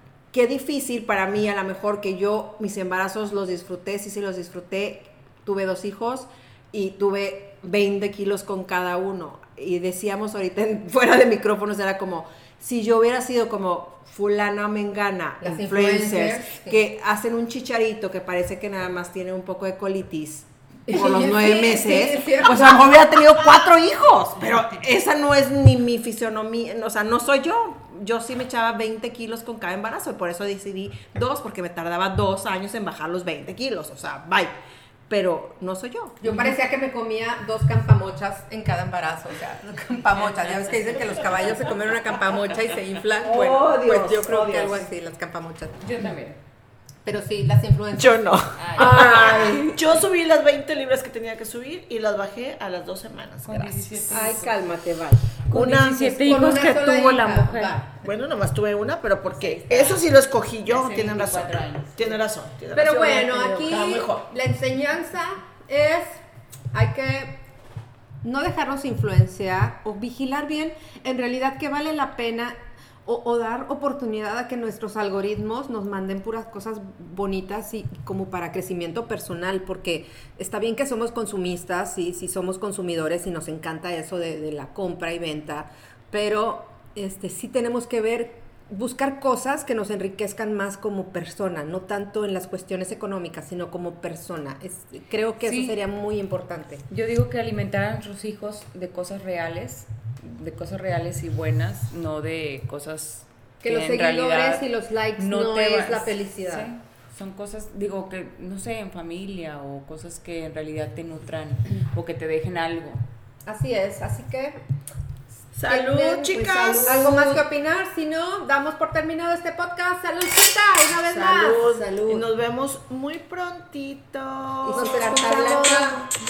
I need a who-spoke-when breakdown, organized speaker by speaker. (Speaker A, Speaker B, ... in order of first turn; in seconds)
Speaker A: 0.3-34.5, 35.1-36.4, 43.2-44.9, 48.8-49.8, 54.1-56.2, 116.7-117.1, 124.6-126.0
Speaker B: 15.4-16.8, 20.9-22.8, 36.2-45.8, 47.0-48.3, 56.2-58.0, 62.7-66.2, 66.7-67.4, 68.2-96.8, 103.6-106.7, 113.5-114.6, 115.6-122.3, 124.7-126.0
Speaker C: 45.8-46.4, 48.6-49.1, 53.4-54.6, 55.5-57.8, 59.3-60.0, 60.6-62.2, 62.9-63.9, 95.4-95.8, 96.9-104.6, 105.2-113.0
Speaker D: 48.0-54.2, 58.0-64.2, 115.5-117.4, 121.1-124.9